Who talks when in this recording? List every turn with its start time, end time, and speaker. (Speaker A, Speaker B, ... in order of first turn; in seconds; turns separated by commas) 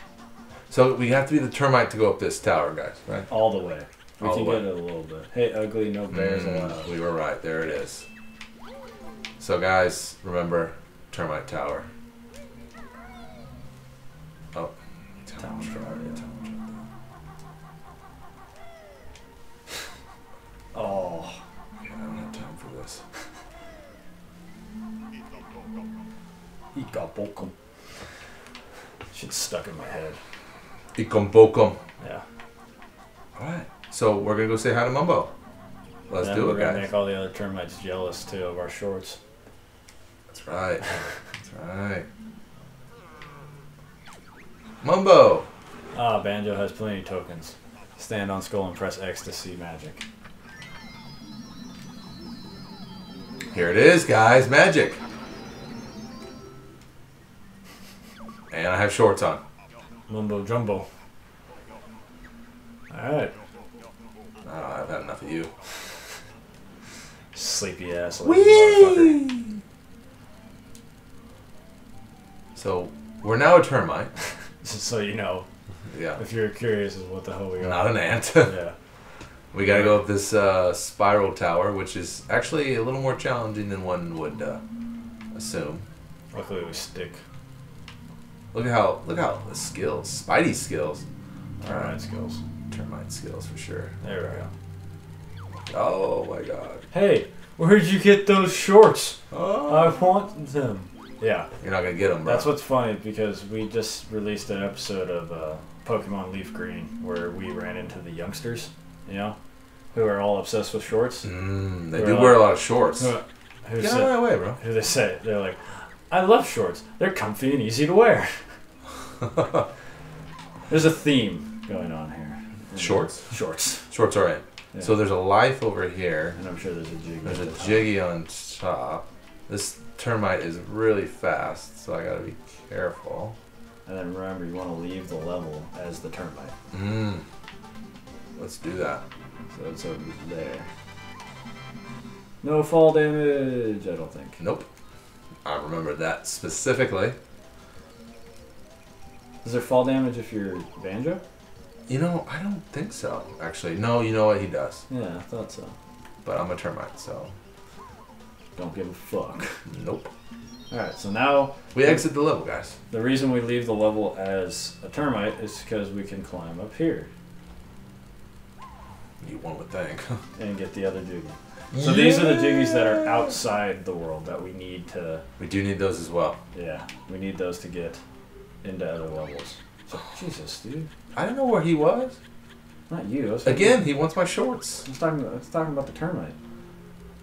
Speaker A: 0.7-3.3, Speaker B: 3.3-6.9, Speaker A: 4.2-4.7, Speaker A: 6.1-8.1, Speaker A: 9.4-11.9, Speaker A: 15.3-16.8, Speaker B: 15.4-16.2, Speaker B: 20.7-21.4, Speaker A: 21.8-23.0, Speaker B: 26.7-27.5, Speaker B: 29.1-30.2, Speaker A: 31.0-31.8, Speaker A: 33.4-35.3, Speaker A: 36.1-36.9, Speaker B: 36.2-39.2, Speaker A: 40.3-42.1, Speaker A: 44.8-45.5, Speaker B: 45.9-50.0, Speaker A: 53.5-55.0, Speaker A: 58.5-59.4, Speaker B: 60.1-60.9, Speaker B: 62.9-63.3, Speaker A: 64.4-65.5, Speaker B: 67.3-69.2, Speaker A: 68.2-69.6, Speaker A: 72.5-74.1, Speaker B: 74.6-75.5, Speaker A: 75.9-76.2, Speaker B: 76.2-78.8, Speaker A: 77.6-78.6, Speaker A: 79.5-84.6, Speaker B: 79.6-80.0, Speaker A: 85.3-85.8, Speaker B: 86.3-87.2, Speaker A: 88.5-91.0, Speaker A: 91.6-92.0, Speaker B: 91.6-92.4, Speaker A: 92.7-94.0, Speaker B: 94.0-94.5, Speaker A: 95.5-96.9, Speaker B: 96.9-101.5, Speaker A: 99.3-100.2, Speaker A: 101.6-102.5, Speaker B: 102.2-109.4, Speaker B: 109.9-111.3, Speaker A: 111.2-113.2, Speaker B: 111.9-118.5, Speaker A: 113.8-114.6, Speaker A: 119.4-119.6, Speaker B: 120.7-123.9, Speaker A: 122.7-123.3, Speaker A: 123.9-126.4, Speaker B: 126.4-127.9, Speaker A: 127.2-133.4, Speaker B: 133.9-136.5, Speaker A: 136.7-137.2, Speaker A: 138.4-139.0, Speaker B: 139.5-140.7, Speaker B: 142.4-144.4, Speaker A: 144.4-144.7, Speaker A: 145.4-147.2, Speaker B: 149.4-151.2, Speaker A: 151.9-154.8, Speaker B: 154.9-155.8, Speaker A: 156.2-157.3, Speaker B: 158.6-159.6, Speaker A: 159.7-160.1, Speaker B: 160.7-162.0, Speaker A: 161.7-162.8, Speaker B: 162.9-167.1, Speaker A: 169.2-170.2, Speaker B: 170.4-175.2, Speaker A: 171.7-173.4, Speaker A: 175.4-176.4, Speaker B: 176.5-178.0, Speaker B: 178.6-180.9, Speaker A: 181.1-182.2, Speaker B: 182.9-183.9, Speaker A: 183.4-184.9, Speaker B: 184.8-186.3